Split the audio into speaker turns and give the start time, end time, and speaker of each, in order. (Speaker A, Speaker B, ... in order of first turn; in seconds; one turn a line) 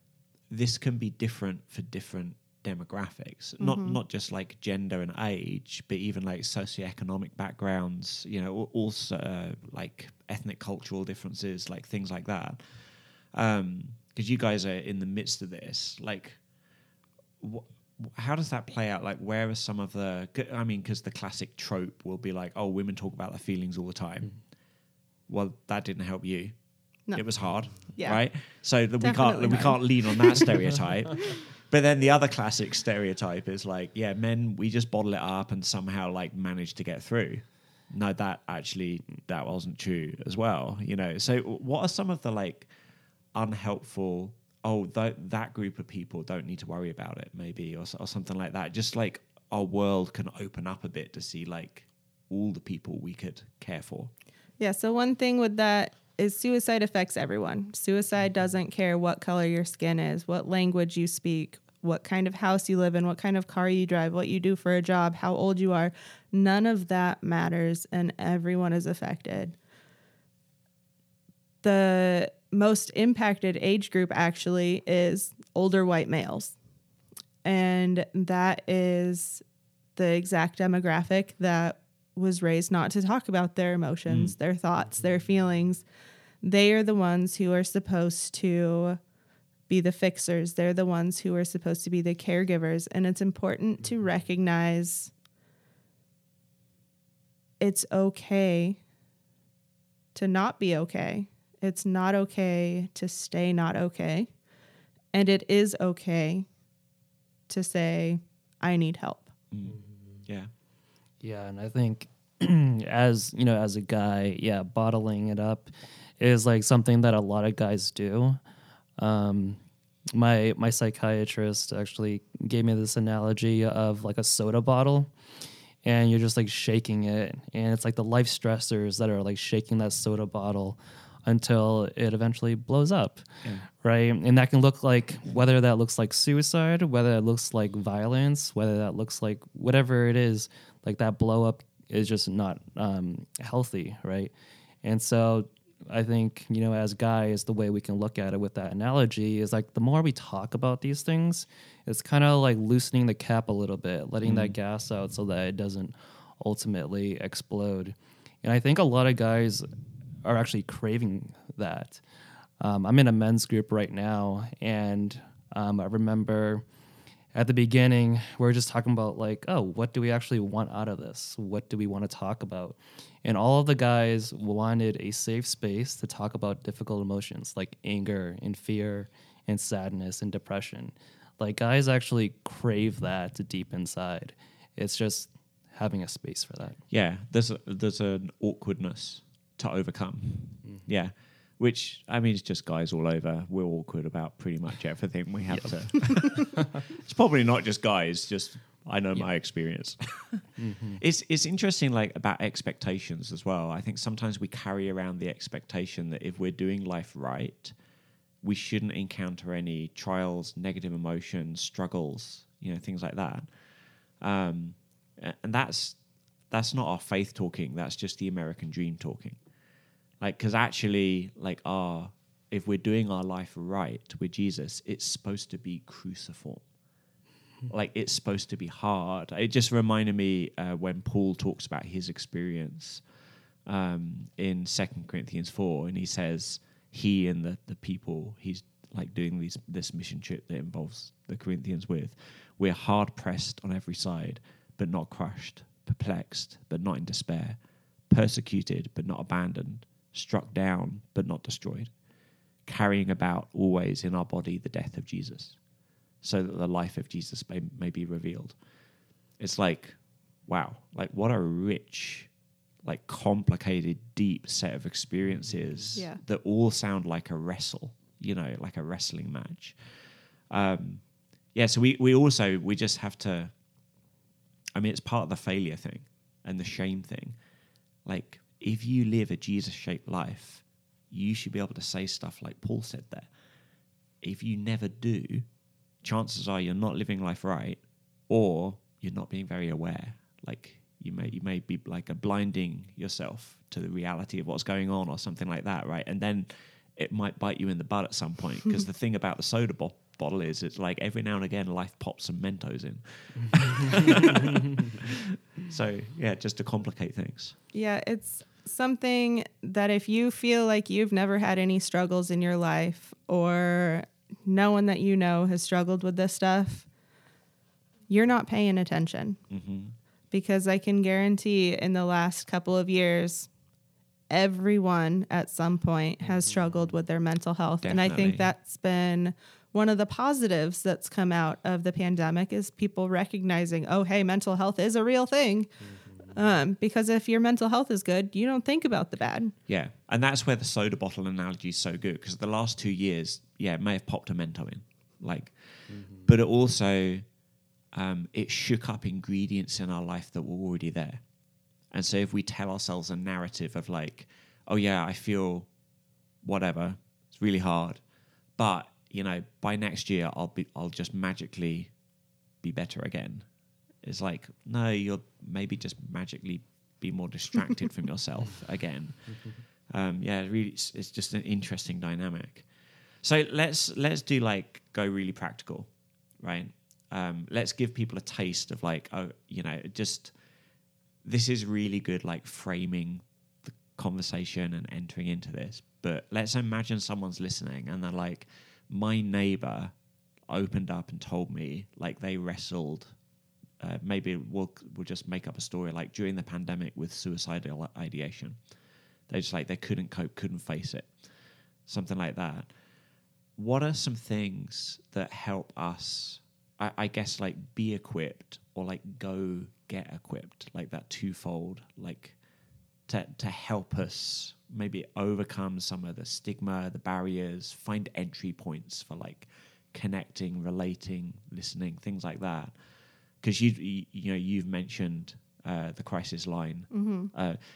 Speaker A: 0.5-16.4
Speaker B: 3.6-4.0
Speaker A: 17.4-24.4
Speaker A: 25.3-26.6
Speaker B: 27.1-28.3
Speaker A: 27.1-42.7
Speaker B: 29.0-30.6
Speaker A: 43.3-54.1
Speaker B: 54.6-69.5
Speaker B: 71.6-76.5
Speaker B: 77.4-79.4
Speaker B: 80.0-85.8
Speaker A: 84.1-84.3
Speaker B: 86.4-89.0
Speaker B: 89.7-95.1
Speaker B: 97.6-98.8
Speaker B: 100.1-104.3
Speaker B: 105.1-106.5
Speaker B: 107.5-109.3
Speaker A: 109.5-110.5
Speaker C: 109.7-110.2
Speaker C: 111.2-118.4
Speaker C: 119.0-119.6
Speaker C: 120.1-125.1
Speaker C: 125.8-133.3
Speaker C: 133.8-144.3
Speaker C: 144.8-159.7
Speaker A: 154.2-154.6
Speaker C: 160.2-162.0
Speaker C: 162.6-166.6
Speaker C: 167.3-186.8
Speaker A: 186.9-207.8
Speaker C: 200.6-201.0
Speaker A: 208.4-213.5
Speaker A: 214.2-216.0
Speaker A: 216.5-219.4
Speaker A: 220.2-226.6
Speaker A: 227.7-233.0
Speaker A: 233.7-247.6
Speaker A: 248.1-251.9
Speaker A: 252.7-255.6
Speaker A: 256.2-258.6
Speaker A: 259.4-262.3
Speaker A: 262.8-269.8
Speaker A: 270.5-273.5
Speaker A: 274.7-277.4
Speaker A: 278.0-283.3
Speaker A: 284.2-285.4
Speaker A: 286.0-307.6
Speaker B: 307.7-316.9
Speaker B: 318.1-319.4
Speaker A: 319.5-319.9
Speaker B: 320.3-323.5
Speaker B: 324.3-339.5
Speaker A: 327.8-328.5
Speaker A: 339.7-347.2
Speaker C: 345.9-346.3
Speaker A: 347.9-351.2
Speaker A: 351.9-355.7
Speaker A: 356.4-358.0
Speaker A: 358.6-361.9
Speaker A: 362.6-363.5
Speaker A: 364.0-372.6
Speaker A: 373.2-375.9
Speaker A: 376.4-380.3
Speaker A: 381.2-389.9
Speaker A: 390.5-393.1
Speaker A: 393.8-398.6
Speaker A: 399.3-401.1
Speaker A: 401.9-402.7
Speaker A: 403.6-412.4
Speaker A: 413.1-422.7
Speaker A: 423.4-427.6
Speaker B: 426.9-427.3